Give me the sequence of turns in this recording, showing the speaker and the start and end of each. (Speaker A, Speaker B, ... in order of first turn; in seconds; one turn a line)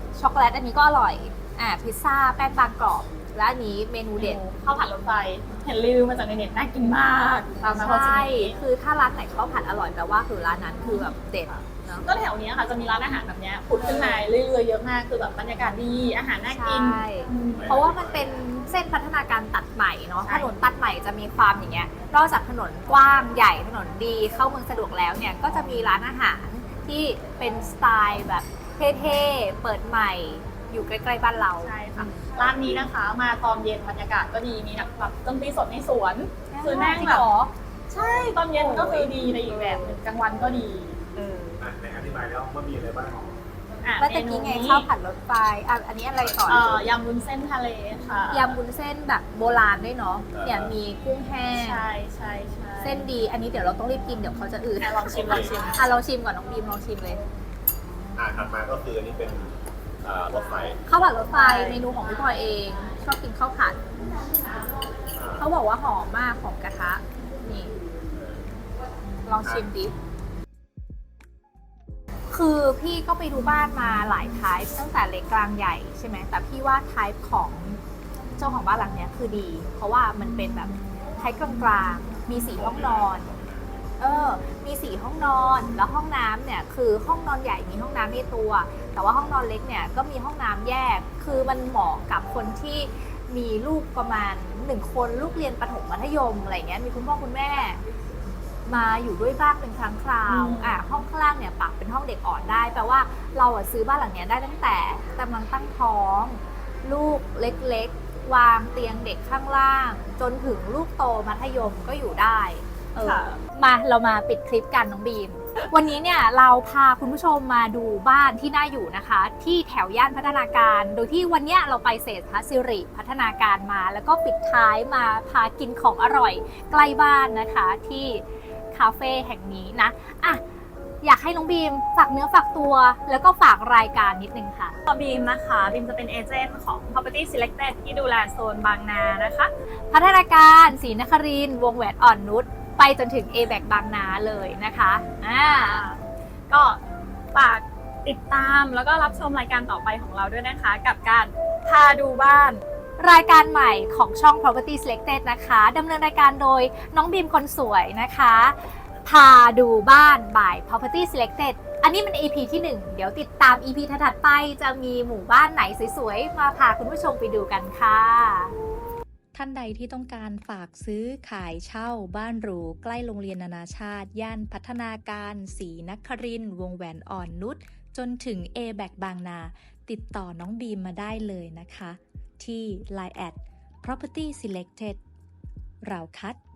Speaker A: 0.1-4.4
Speaker B: 4.2-8.5
Speaker A: 7.7-12.1
Speaker B: 11.5-17.7
Speaker A: 13.8-14.2
Speaker A: 16.5-32.1
Speaker C: 17.6-18.3
Speaker B: 20.2-20.5
Speaker B: 31.6-37.2
Speaker A: 36.5-37.5
Speaker B: 37.9-41.6
Speaker A: 38.6-39.1
Speaker C: 41.6-43.3
Speaker B: 43.8-44.9
Speaker A: 44.0-46.7
Speaker C: 46.2-46.9
Speaker B: 46.5-48.6
Speaker A: 48.3-51.9
Speaker C: 50.3-50.7
Speaker B: 51.5-53.0
Speaker A: 52.8-57.2
Speaker B: 54.8-55.9
Speaker C: 55.1-55.5
Speaker C: 58.1-60.8
Speaker A: 60.9-63.8
Speaker B: 61.3-61.8
Speaker C: 65.2-65.5
Speaker A: 65.3-67.8
Speaker A: 69.2-69.9
Speaker A: 72.3-77.8
Speaker A: 78.4-83.3
Speaker C: 82.3-83.7
Speaker A: 84.0-97.8
Speaker A: 98.7-130.4
Speaker B: 100.3-101.0
Speaker B: 113.0-113.4
Speaker A: 131.0-134.8
Speaker B: 134.8-139.5
Speaker A: 139.9-145.8
Speaker B: 145.4-146.8
Speaker B: 147.3-152.6
Speaker A: 153.0-168.5
Speaker D: 169.3-185.0
Speaker D: 185.8-186.4